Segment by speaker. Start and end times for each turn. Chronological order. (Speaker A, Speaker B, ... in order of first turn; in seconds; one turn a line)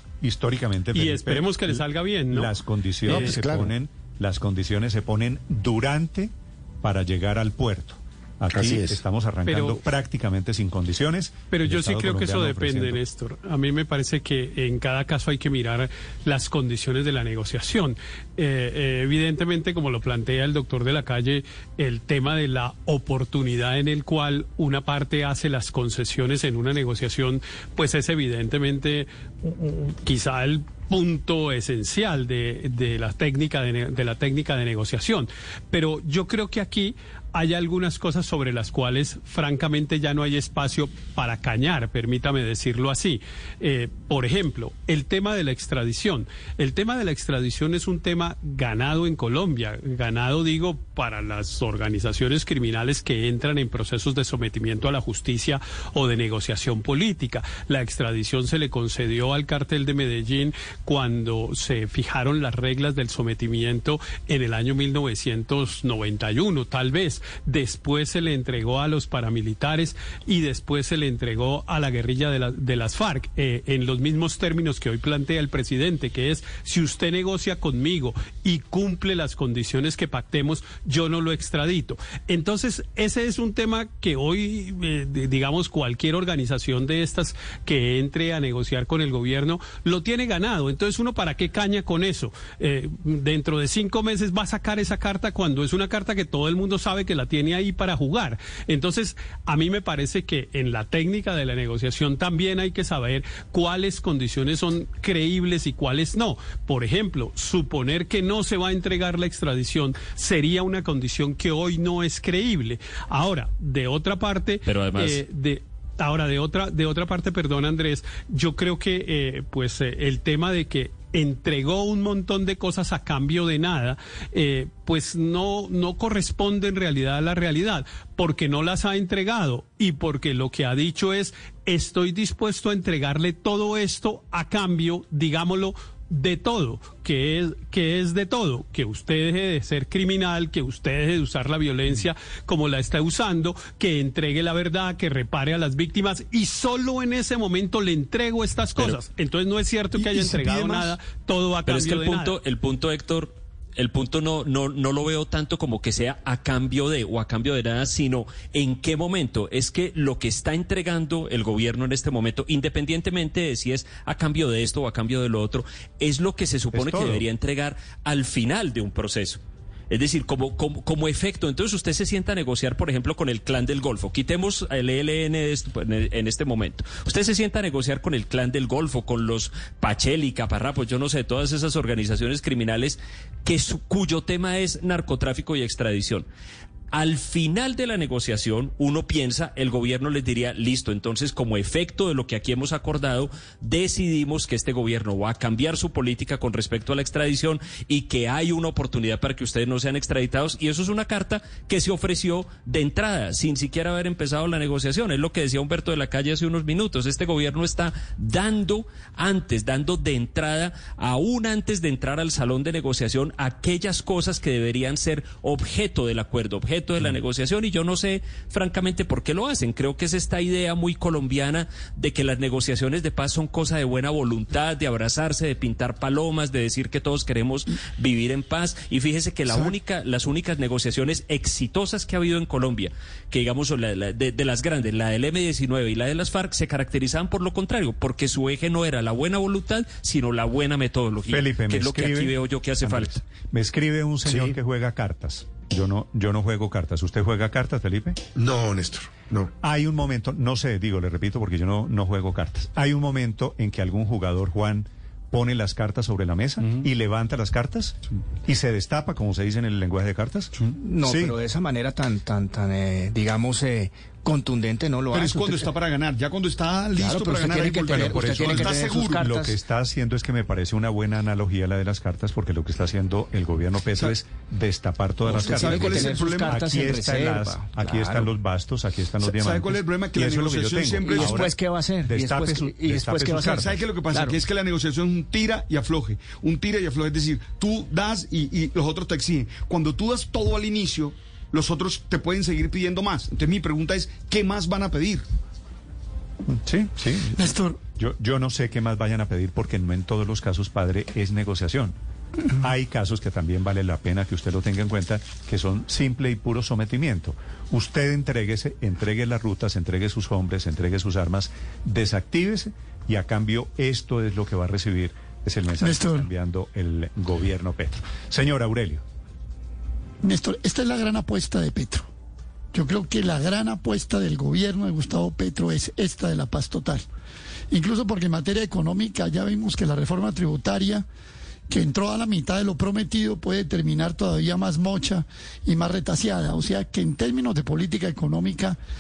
Speaker A: 0.2-13.0
Speaker B: 0.9-2.5
Speaker C: 3.0-3.7
Speaker B: 3.0-3.3
Speaker C: 8.5-9.0
Speaker B: 9.4-9.8
Speaker B: 11.5-152.3
Speaker D: 114.7-115.2
Speaker E: 150.0-150.9
Speaker D: 151.7-186.3
Speaker A: 166.7-167.2
Speaker D: 186.9-243.2
Speaker A: 241.3-248.2
Speaker C: 248.3-249.5
Speaker A: 249.6-261.4
Speaker F: 260.7-265.7
Speaker E: 265.1-269.3
Speaker F: 266.9-269.6
Speaker A: 267.9-283.8
Speaker F: 275.2-278.3
Speaker E: 275.3-276.7
Speaker E: 279.2-281.4
Speaker F: 281.0-284.4
Speaker E: 283.5-295.2
Speaker A: 296.5-301.9
Speaker G: 297.4-297.8
Speaker A: 302.6-319.0
Speaker G: 315.8-316.3
Speaker G: 320.2-322.1
Speaker G: 322.7-327.0
Speaker G: 327.7-331.1
Speaker G: 331.7-338.8